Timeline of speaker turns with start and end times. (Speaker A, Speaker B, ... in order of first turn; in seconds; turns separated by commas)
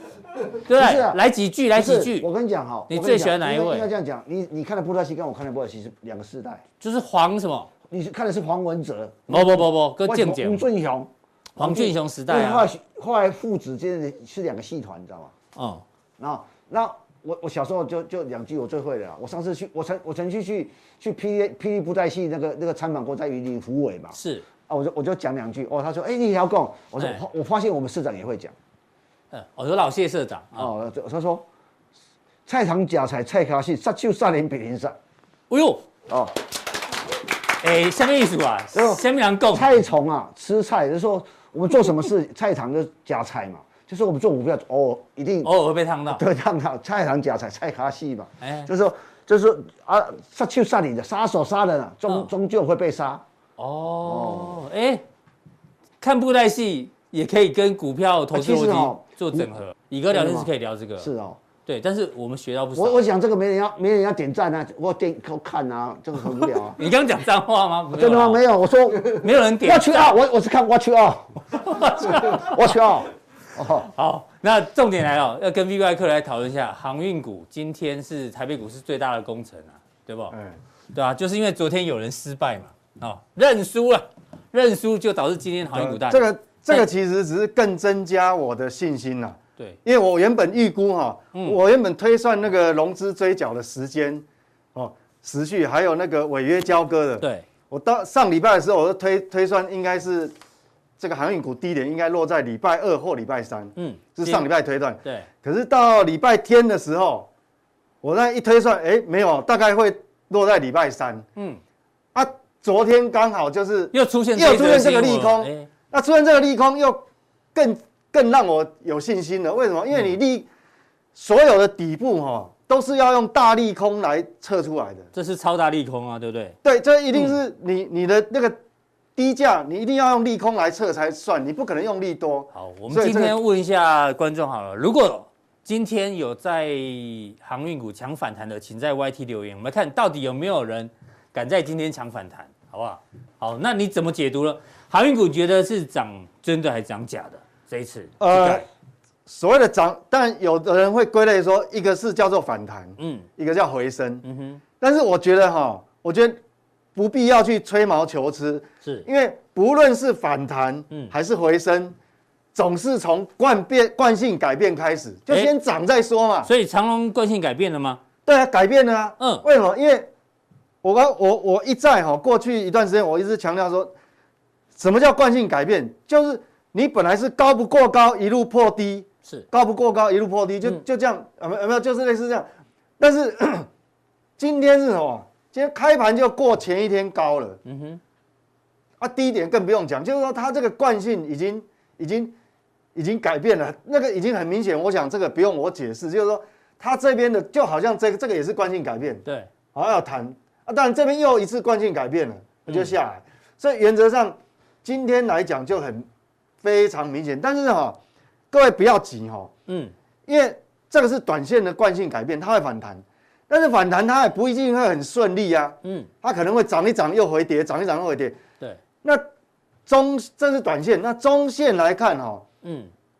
Speaker A: 0.6-2.3, Speaker B: 0.7-1.2, Speaker B: 1.7-6.6, Speaker A: 2.9-3.9, Speaker A: 6.8-7.7, Speaker B: 7.9-15.3, Speaker A: 9.3-10.7, Speaker A: 11.6-12.7, Speaker A: 15.6-15.8, Speaker B: 16.2-24.2, Speaker A: 24.1-24.4, Speaker B: 24.7-28.5, Speaker A: 27.0-27.2, Speaker A: 29.3-30.7, Speaker B: 30.6-31.4, Speaker B: 32.5-35.0, Speaker A: 35.5-35.9, Speaker B: 36.1-36.3, Speaker A: 37.6-39.7, Speaker B: 38.7-45.5, Speaker A: 45.4-46.2, Speaker B: 46.1-53.2, Speaker A: 48.4-48.7, Speaker A: 53.6-55.0, Speaker B: 54.0-54.6, Speaker A: 56.0-61.1, Speaker B: 58.3-59.5, Speaker B: 60.1-61.4, Speaker A: 61.6-63.1, Speaker B: 62.8-66.8, Speaker A: 66.3-68.4, Speaker B: 67.9-73.9, Speaker A: 69.0-70.2, Speaker A: 71.5-72.8, Speaker A: 73.8-80.3, Speaker C: 80.3-80.6, Speaker A: 80.9-86.8, Speaker C: 85.7-100.3, Speaker A: 97.2-97.5, Speaker C: 101.0-107.3, Speaker A: 103.8-104.5, Speaker C: 108.0-111.2, Speaker A: 111.3-111.6, Speaker C: 112.1-120.5, Speaker A: 113.9-115.7, Speaker C: 121.1-125.1, Speaker A: 125.1-126.5, Speaker C: 126.6-128.6, Speaker C: 129.2-133.4, Speaker A: 132.5-148.6, Speaker C: 148.2-148.6, Speaker C: 149.2-154.2, Speaker A: 153.0-153.3, Speaker A: 154.2-154.6, Speaker C: 154.8-156.4, Speaker C: 156.9-161.9, Speaker C: 162.5-166.5, Speaker A: 166.4-168.0, Speaker C: 168.2-170.1, Speaker C: 170.8-173.9, Speaker C: 174.7-182.5, Speaker C: 183.0-183.7, Speaker C: 184.4-187.6, Speaker A: 187.6-188.0, Speaker C: 189.0-192.3, Speaker C: 192.9-206.1, Speaker A: 202.7-202.9, Speaker C: 206.6-208.0, Speaker C: 208.5-209.5, Speaker A: 209.7-209.9, Speaker C: 210.2-218.4, Speaker A: 215.8-216.1, Speaker C: 219.9-222.4, Speaker A: 222.6-222.9